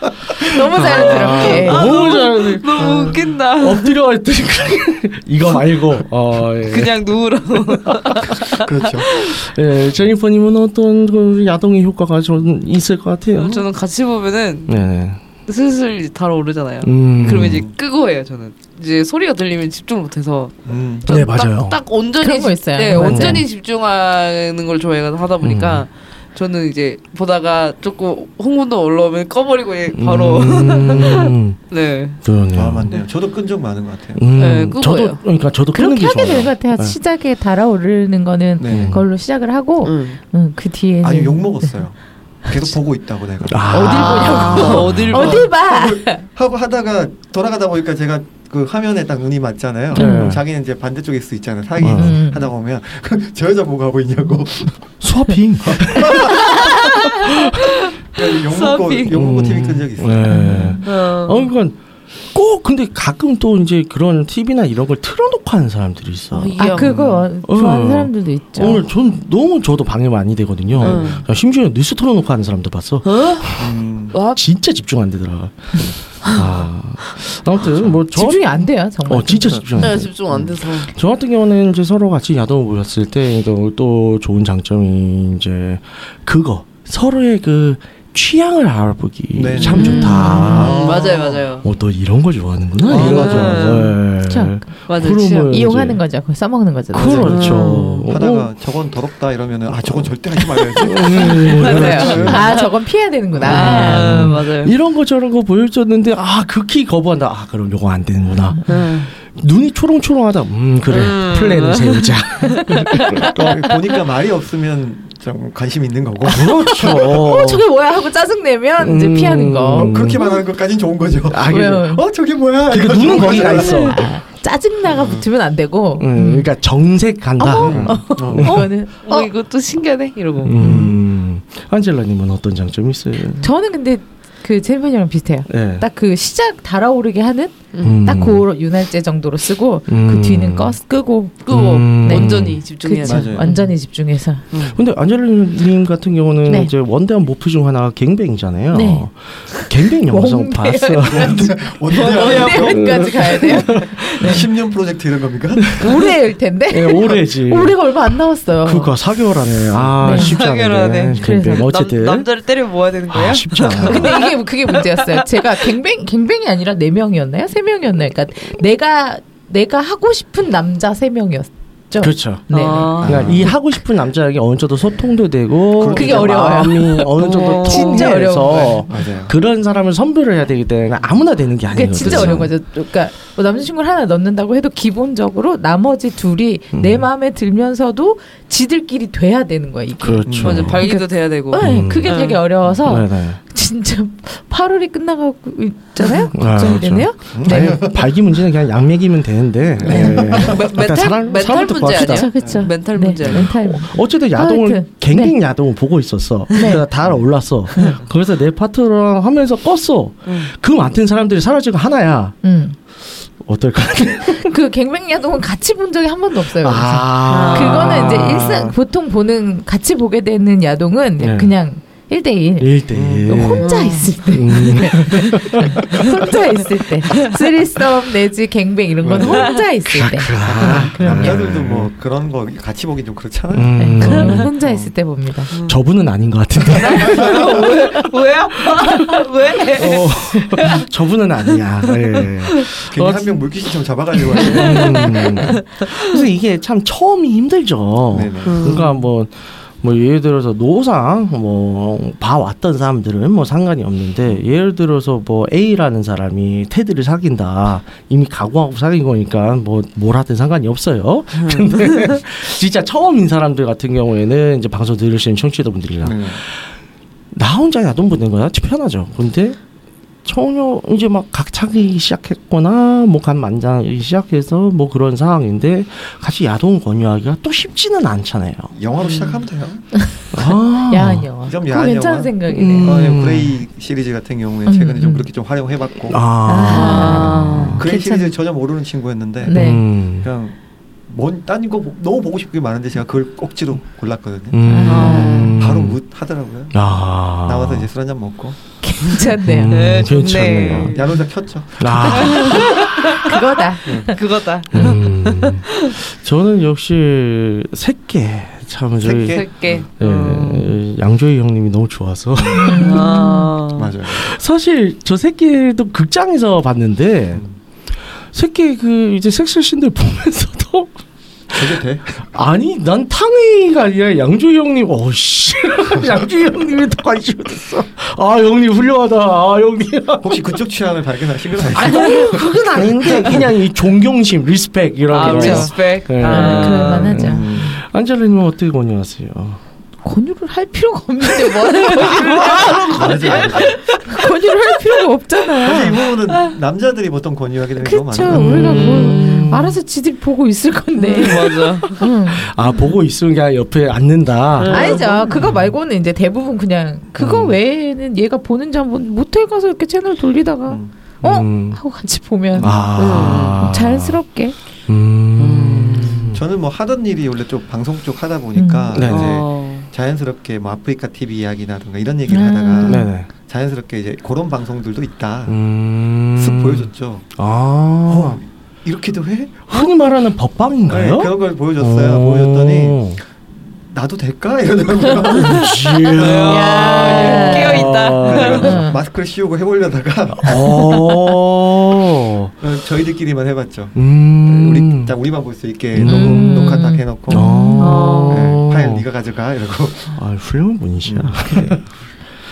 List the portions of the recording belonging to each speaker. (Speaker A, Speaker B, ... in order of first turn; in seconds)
Speaker A: 0.4-2.0, 22.2-23.5, 35.7-41.8, 43.7-46.2, 49.9-50.4, 51.9-52.5, 60.3-60.8, 66.6-68.8, 78.1-79.6, 89.7-90.8, 94.3-94.6, 95.5-97.4, 100.8-104.2, 112.7-113.2, 116.9-120.0, 121.5-122.0, 123.8-126.5, 127.4-129.3, 130.6-131.0, 133.4-141.3, 142.0-144.4, 146.5-146.7, 148.7-154.4, 155.8-159.0, 160.0-160.4, 161.1-161.7, 163.8-173.6, 175.9-178.8, 181.7-197.9, 199.8-200.5, 202.0-205.3, 206.5-206.8, 212.4-212.8, 214.4-231.5, 233.8-235.5, 280.9-283.0, 284.7-285.3, 286.4-288.4, 289.5-289.8, 294.6-295.5, 298.8-300.0, 302.7-304.2, 312.6-313.5, 335.2-337.8, 340.0-346.0, 347.8-352.5, 354.7-364.6, 368.6-368.9, 372.3-373.1, 386.5-387.9, 388.6-389.0, 396.0-398.1
Speaker B: 0.4-7.0, 7.5-8.4, 9.2-13.7, 14.7-15.2, 16.8-17.7, 21.1-21.8, 22.9-23.5, 25.4-25.9, 29.9-31.6, 32.2-32.9, 34.2-37.0, 38.6-39.0, 43.4-45.3, 50.0-50.4, 51.8-52.2, 55.0-56.5, 59.1-61.8, 62.3-66.8, 67.4-73.8, 74.3-91.1, 91.6-96.0, 96.9-98.5, 99.8-100.1, 100.8-102.5, 103.4-113.8, 116.2-117.7, 118.8-120.3, 121.3-121.9, 122.7-124.1, 126.0-128.7, 130.4-133.5, 135.5-135.9, 137.8-138.4, 139.9-140.8, 141.5-142.6, 144.6-151.6, 152.7-154.0, 156.7-158.0, 158.6-162.3, 163.1-164.2, 172.0-182.5, 186.7-187.1, 190.0-190.9, 191.6-193.4, 196.3-202.3, 203.2-212.4, 213.4-214.5, 216.6-218.8, 221.2-221.5, 222.6-226.0, 229.9-231.9, 233.5-234.5, 235.7-237.9, 238.7-243.4, 244.4-266.7, 267.3-269.6, 270.2-278.7, 280.3-281.3, 282.5-283.6, 286.1-287.8, 289.5-290.3, 294.5-296.0, 296.7-297.9, 299.4-301.0, 301.8-302.6, 304.7-313.0, 314.1-317.4, 318.3-320.9, 321.5-330.6, 331.6-339.6, 342.0-343.4, 348.2-349.8, 352.3-355.7, 357.2-357.6, 361.2-361.8, 362.6-364.2, 364.9-366.4, 368.9-369.4, 372.8-373.3, 375.5-378.4, 379.7-383.2, 385.3-388.8, 390.4-392.5, 393.9-395.1, 395.9-399.1, 400.1-401.8
Speaker C: 0.8-4.0, 6.7-9.4, 13.4-14.8, 15.5-32.2, 34.4-35.2, 39.8-40.2, 44.0-45.5, 56.3-57.1, 58.2-59.1, 60.8-61.5, 66.3-67.2, 70.8-71.2, 73.0-73.5, 74.1-74.4, 79.8-80.9, 89.6-91.7, 92.8-94.0, 94.9-95.7, 97.2-98.2, 101.8-102.7, 103.4-104.7, 108.7-109.1, 110.9-112.8, 128.4-130.6, 137.7-138.0, 141.4-143.7, 144.5-144.8, 151.9-154.4, 160.0-165.5, 172.5-173.5, 177.2-178.1, 190.4-192.4, 200.3-203.6, 217.3-218.4, 223.6-224.1, 225.1-225.4, 227.1-227.4, 229.3-229.6, 235.5-235.8, 236.7-240.9, 241.9-242.7, 244.6-246.2, 248.4-249.1, 261.4-262.2, 279.0-279.4, 286.6-287.8, 294.9-295.6, 299.7-301.1, 302.1-303.4, 303.9-306.0, 309.2-310.8, 312.8-313.9, 335.1-337.1, 342.0-344.1, 348.6-349.6, 351.0-352.0, 354.6-355.4, 363.0-363.7, 365.4-366.3, 369.1-369.9, 386.1-388.8, 397.8-398.6
Speaker D: 2.8-3.3, 8.5-9.1, 17.2-17.7, 20.7-21.1, 32.5-34.2, 38.6-39.0, 41.0-55.0, 55.6-56.7, 58.1-60.5, 66.8-67.2, 70.7-71.2, 73.6-74.2, 89.3-91.5, 92.9-93.8, 96.9-102.6, 113.2-117.2, 119.7-124.0, 124.9-125.2, 127.5-128.6, 143.0-143.5, 151.0-153.0, 153.9-155.8, 173.0-173.5, 175.8-176.6, 178.5-179.3, 182.0-182.4, 190.2-190.8, 197.3-198.2, 199.7-200.6, 207.0-207.3, 222.9-223.6, 229.0-229.5, 230.4-234.9, 236.7-237.8, 242.9-245.6, 248.1-248.8, 266.0-266.4, 278.7-280.0, 281.5-286.3, 287.7-296.9, 297.4-298.6, 300.4-302.6, 303.9-304.1, 309.0-309.9, 312.4-312.8, 313.8-314.4, 321.5-322.1, 330.2-333.5, 337.1-337.8, 342.7-343.8, 345.6-348.9, 360.7-360.9, 362.6-362.9, 366.3-375.6, 376.4-377.3, 378.1-379.9, 380.9-387.6, 388.2-390.8, 392.6-400.2, 401.0-401.8